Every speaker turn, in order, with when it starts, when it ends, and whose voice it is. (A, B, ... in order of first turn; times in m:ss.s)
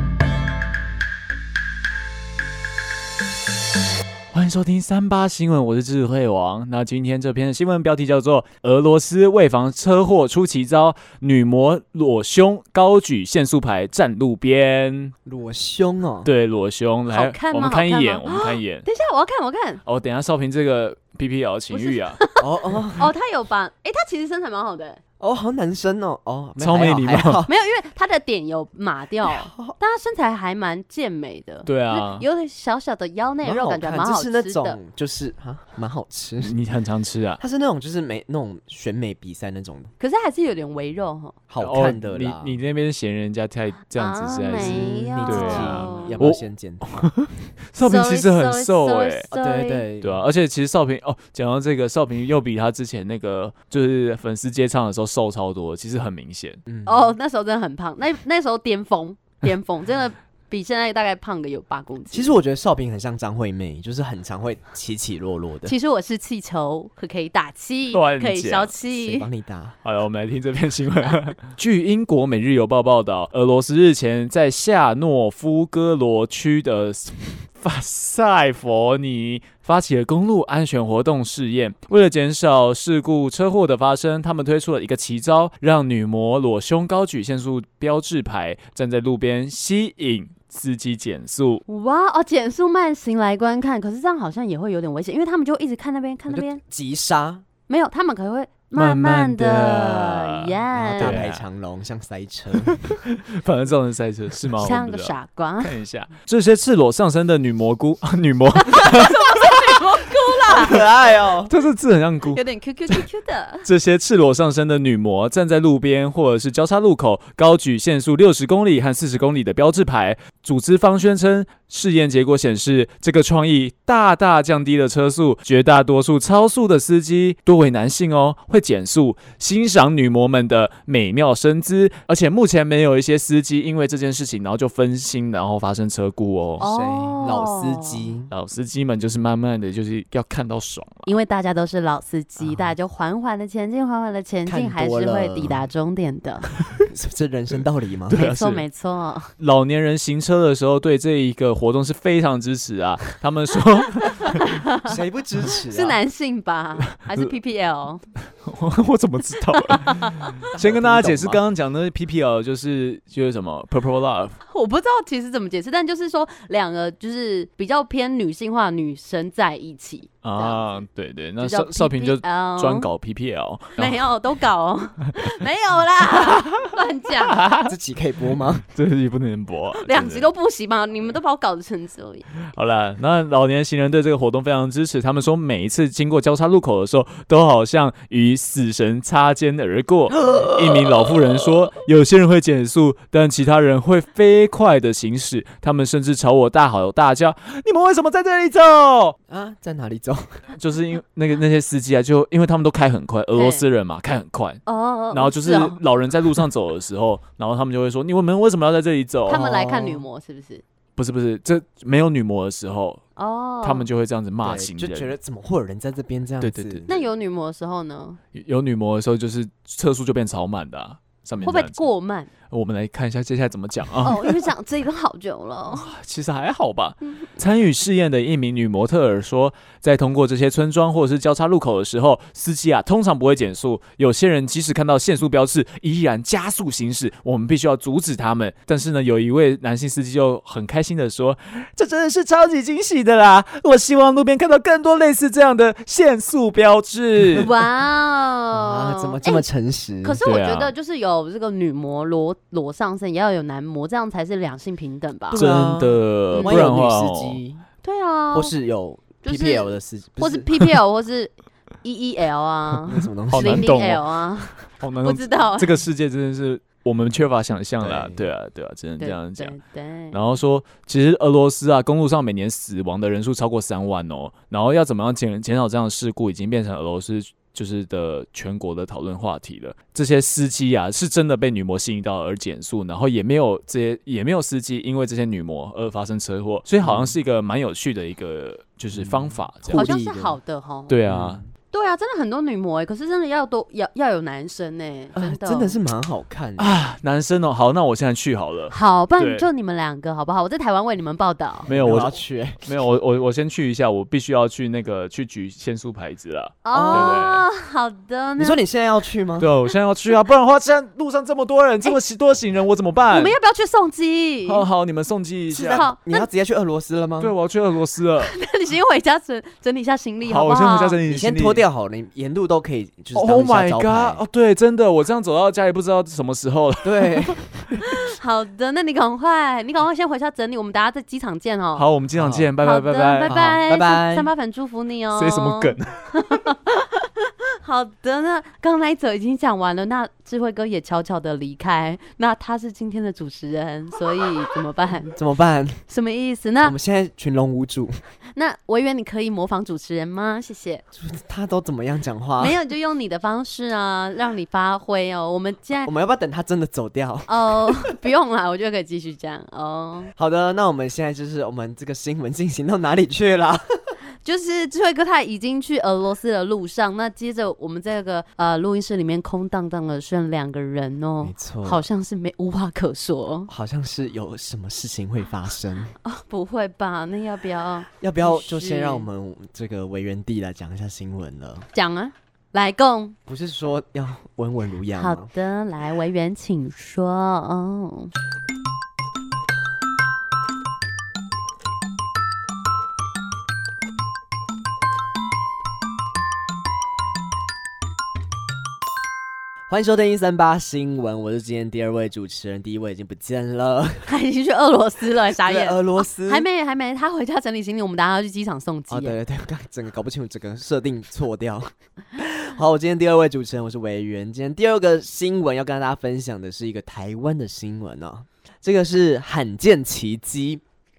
0:04.3-0:15.1 A
0:15.2-0:16.3 B
0:16.2-0:18.8 A
0:17.1-0:19.8 C
0:19.8-0:22.2 A
0:21.7-0:22.4 C
0:22.4-0:23.0 B
0:23.0-0:25.0 C
0:25.2-0:27.5 B
0:26.6-0:27.4 A
0:27.5-0:34.8 C
0:29.2-0:29.8 B
0:31.6-0:32.2 A
0:33.4-0:36.5 B
0:36.4-0:37.4 A
0:37.4-0:39.9 B
0:40.0-0:41.4 C
0:41.5-0:42.6 B
0:41.6-0:49.3 A
0:44.0-0:46.2 C
0:44.5-0:47.1 B
0:47.8-0:49.9 C
0:49.3-0:50.2 B
0:50.0-0:56.6 A
0:56.6-0:57.1 B
0:56.8-1:02.4 C
1:02.1-1:05.7 B
1:05.6-1:09.3 C
1:07.9-1:08.7 A
1:08.9-1:09.8 B
1:09.8-1:31.6 A
1:31.7-1:36.6 C
1:36.3-1:37.4 B
1:37.7-1:41.2 C
1:38.7-1:41.4 A
1:40.8-1:42.9 B
1:42.6-1:49.4 A
1:44.6-1:45.7 C
1:48.6-1:50.8 C
1:50.5-1:51.5 B
1:51.4-1:53.0 A
1:52.3-1:53.7 C
1:53.6-2:16.6 A
2:16.6-2:18.0 C
2:16.6-2:18.3 B
2:18.3-2:21.1 A
2:21.0-2:26.5 C
2:22.4-2:22.7 B
2:24.4-2:25.6 B
2:26.9-2:28.3 B
2:28.1-2:28.6 A
2:28.1-2:29.3 C
2:29.4-2:34.4 A
2:34.3-2:34.9 C
2:34.9-2:36.0 B
2:35.5-2:38.0 C
2:38.4-2:44.4 A
2:39.7-2:40.2 C
2:40.5-2:41.4 B
2:44.5-2:50.6 C
2:50.2-2:54.1 A
2:51.4-2:52.9 C
2:53.8-2:57.5 C
2:56.3-2:56.7 A
2:57.2-2:57.7 A
2:57.6-2:58.6 B
2:58.6-3:00.3 A
2:59.8-3:02.3 C
3:02.5-3:19.2 A
3:10.2-3:10.9 B
3:19.3-3:20.4 B
3:20.5-3:29.4 A
3:23.3-3:23.6 C
3:24.6-3:25.8 C
3:29.3-3:30.6 C
3:29.3-3:30.0 B
3:31.0-3:33.0 A
3:33.2-3:33.9 C
3:33.6-3:35.1 A
3:34.4-3:36.8 B
3:36.4-3:37.0 A
3:36.9-3:38.2 C
3:38.3-3:41.8 A
3:41.4-3:42.3 C
3:42.5-3:44.2 A
3:44.0-3:45.9 C
3:45.7-4:07.5 A
4:07.4-4:09.4 C
4:08.5-4:10.2 B
4:10.0-4:15.4 C
4:10.2-4:10.7 A
4:15.3-4:17.6 B
4:15.3-4:17.4 A
4:16.3-4:16.7 C
4:17.8-4:18.5 C
4:18.3-4:20.5 B
4:19.2-4:25.8 C
4:22.9-4:23.7 B
4:23.3-4:29.6 A
4:27.8-4:28.3 B
4:29.0-4:30.2 C
4:30.1-4:49.9 A
4:46.8-4:47.2 B
4:48.9-4:50.4 B
4:49.7-4:50.9 C
4:50.9-4:51.4 A
4:51.1-4:51.5 B
4:51.7-4:55.8 C
4:55.1-4:56.7 B
4:56.6-4:59.5 A
4:58.7-5:01.7 C
5:01.7-5:07.4 A
5:01.7-5:02.6 B
5:06.6-5:08.6 C
5:06.7-5:07.3 B
5:08.4-5:09.5 B
5:09.4-5:13.4 A
5:13.1-5:14.6 C
5:14.4-5:15.9 A
5:15.5-5:17.3 B
5:15.7-5:16.2 C
5:17.2-5:18.4 A
5:18.2-5:21.0 C
5:20.2-5:21.6 A
5:21.0-5:24.2 B
5:23.1-5:27.8 A
5:26.8-5:27.8 B
5:27.9-5:31.8 C
5:31.8-5:33.4 A
5:32.1-5:32.5 B
5:32.6-5:45.2 C
5:33.2-5:34.3 B
5:35.1-5:36.1 A
5:45.1-5:45.8 B
5:45.9-5:46.8 C
5:46.6-5:48.0 B
5:48.4-5:50.8 C
5:50.9-5:52.6 B
5:52.4-5:55.9 C
5:55.8-5:57.9 B
5:57.3-6:00.1 C
6:00.2-6:03.9 B
6:04.2-6:13.5 C
6:11.2-6:11.8 B
6:13.5-6:16.0 B
6:16.0-6:19.1 C
6:18.0-6:21.7 B
6:21.7-6:23.2 C
6:23.2-6:25.3 B
6:25.0-6:28.1 C
6:39.7-6:44.1 B
6:44.0-6:49.2 C
6:45.3-6:46.5 B
6:48.9-7:00.6 B